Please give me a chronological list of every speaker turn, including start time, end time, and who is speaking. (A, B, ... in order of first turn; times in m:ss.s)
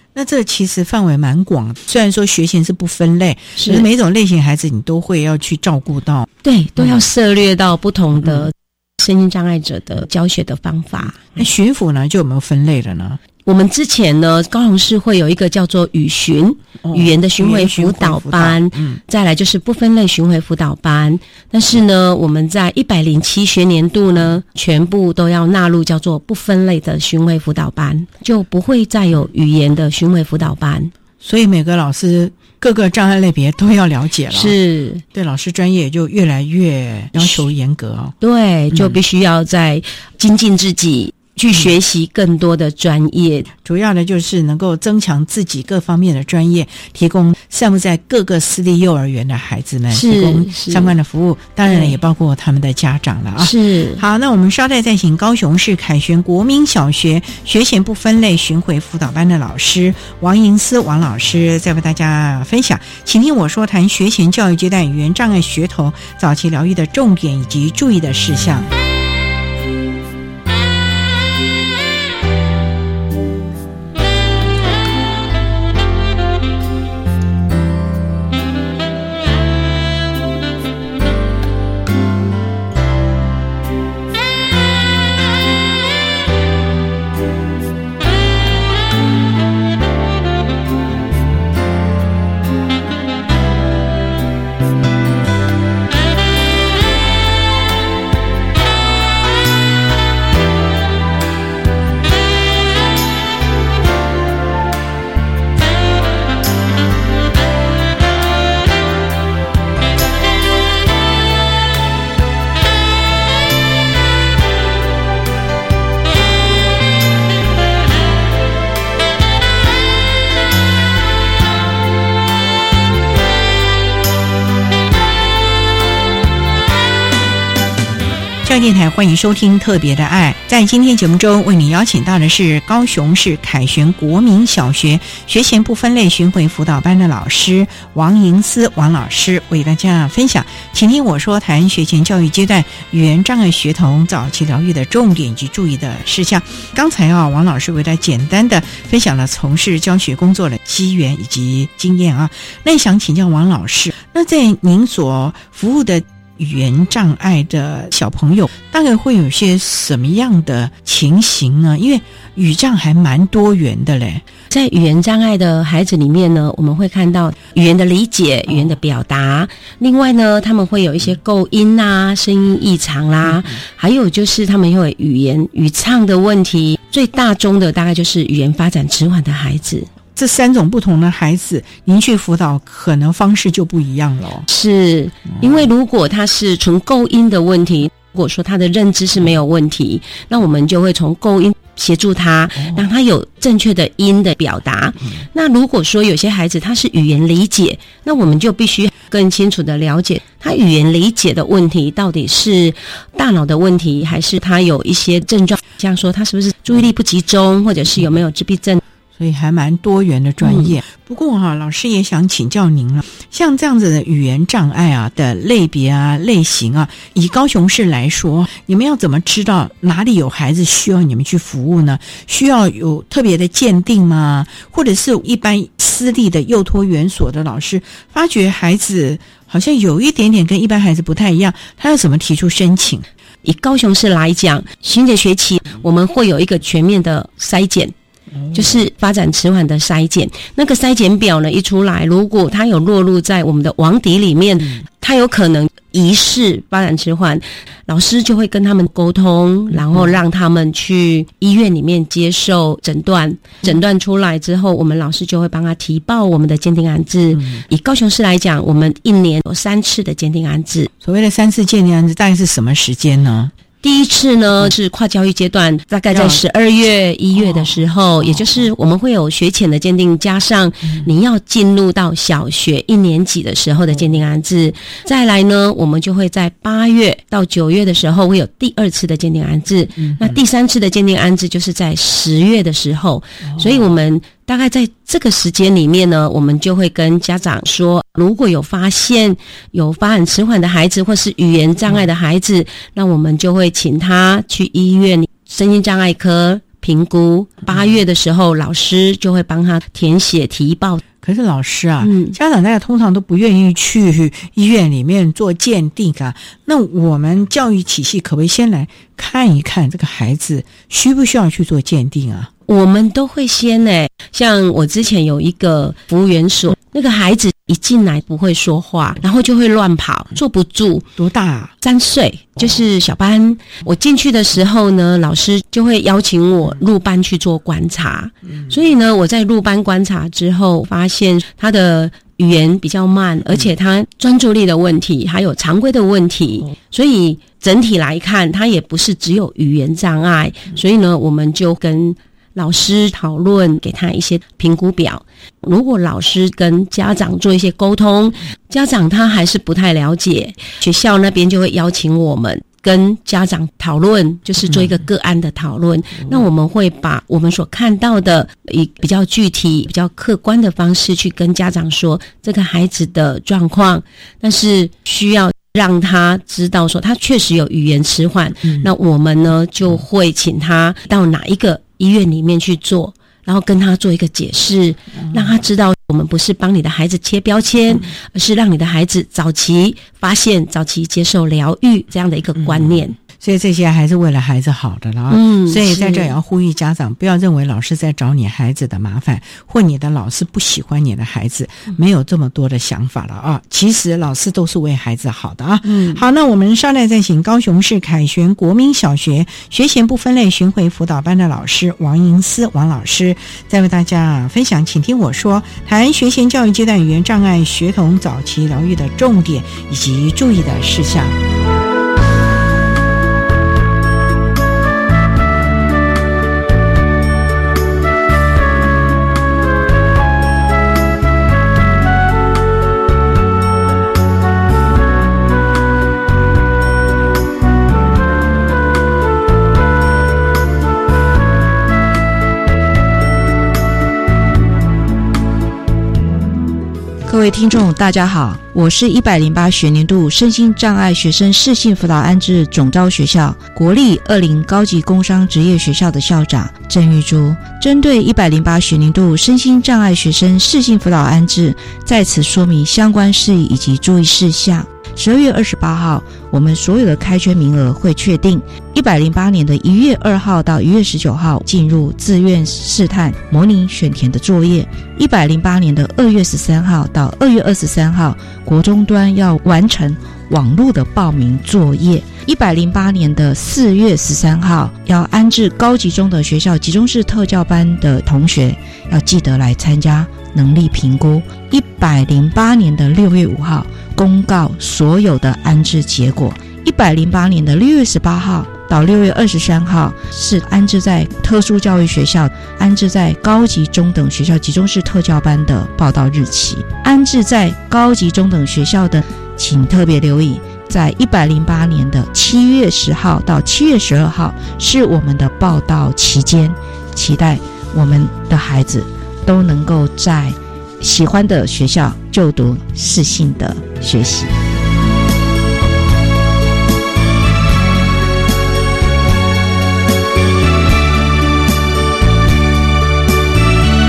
0:00.2-0:06.3 A
0:03.6-0:03.9 B
0:06.4-0:11.4 B
0:06.8-0:07.0 A
0:11.2-0:13.2 A
0:13.4-0:30.9 B
0:16.8-0:19.0 A
0:31.2-0:34.6 A
0:34.3-0:35.0 B
0:35.1-0:38.1 A
0:37.2-0:37.4 B
0:38.2-0:43.5 B
0:38.7-0:39.0 A
0:43.6-1:08.7 A
0:49.9-0:50.9 B
0:51.7-0:52.0 B
0:53.4-0:54.0 B
2:08.4-2:44.2 A
2:44.5-2:59.9 B
2:48.5-2:48.7 A
3:00.1-3:04.5 A
3:04.5-3:28.8 B
3:05.4-3:05.7 A
3:29.2-3:53.1 A
3:30.4-3:30.7 B
3:53.4-3:57.9 B
3:58.4-3:58.8 A
3:58.5-4:20.9 B
4:09.8-4:10.2 A
4:17.3-4:17.6 A
4:21.0-4:23.5 A
4:23.8-5:01.0 B
4:26.1-4:26.4 A
4:27.3-4:28.4 A
4:43.5-4:43.9 A
5:01.2-5:12.5 A
5:02.0-5:02.4 B
5:12.7-5:21.1 B
5:21.2-5:21.7 A
5:21.8-6:23.2 B
6:15.2-6:15.5 A
6:22.6-6:51.4 A
6:25.3-6:26.4 B
6:35.9-6:36.2 B
7:17.2-8:34.5 C